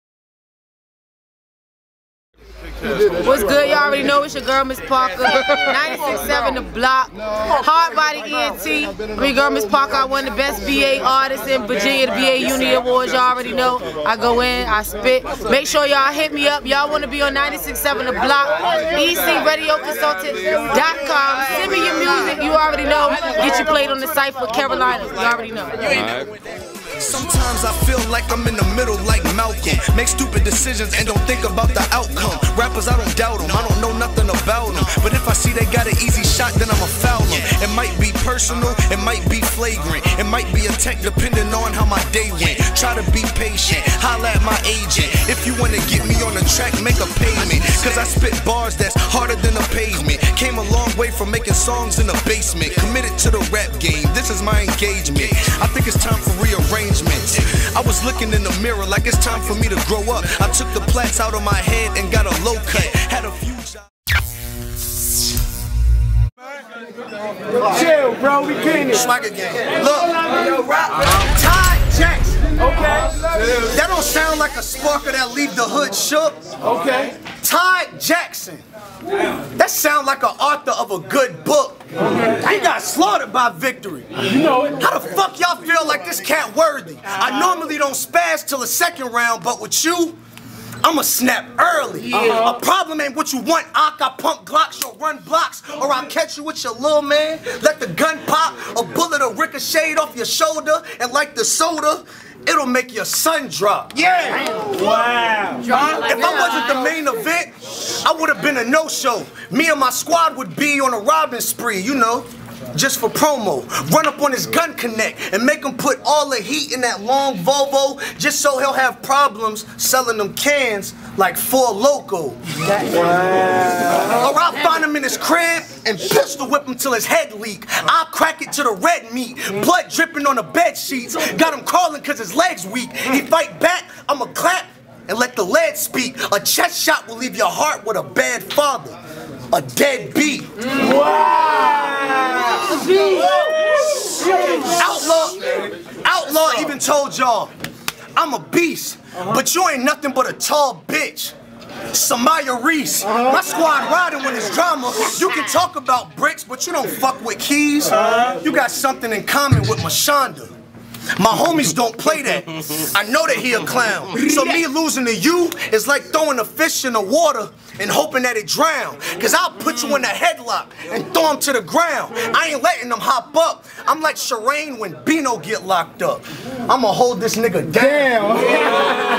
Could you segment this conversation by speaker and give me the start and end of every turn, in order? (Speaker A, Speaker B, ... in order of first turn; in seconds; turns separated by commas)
Speaker A: 2.9-26.0, Speaker B: 27.0-63.9, Speaker C: 67.7-68.8, Speaker B: 68.7-70.3, Speaker B: 70.8-72.4, Speaker B: 73.5-76.4, Speaker C: 76.7-77.1, Speaker B: 77.2-78.6, Speaker B: 79.5-90.2, Speaker B: 90.8-104.0, Speaker A: 104.4-104.8, Speaker C: 104.8-105.7, Speaker A: 105.7-106.0, Speaker B: 105.8-122.4, Speaker B: 124.0-139.0, Speaker B: 139.5-140.9, Speaker C: 141.2-142.2, Speaker B: 142.8-145.4, Speaker B: 146.0-147.5, Speaker B: 148.2-151.3, Speaker B: 151.9-160.5, Speaker B: 161.2-178.7, Speaker C: 178.2-178.5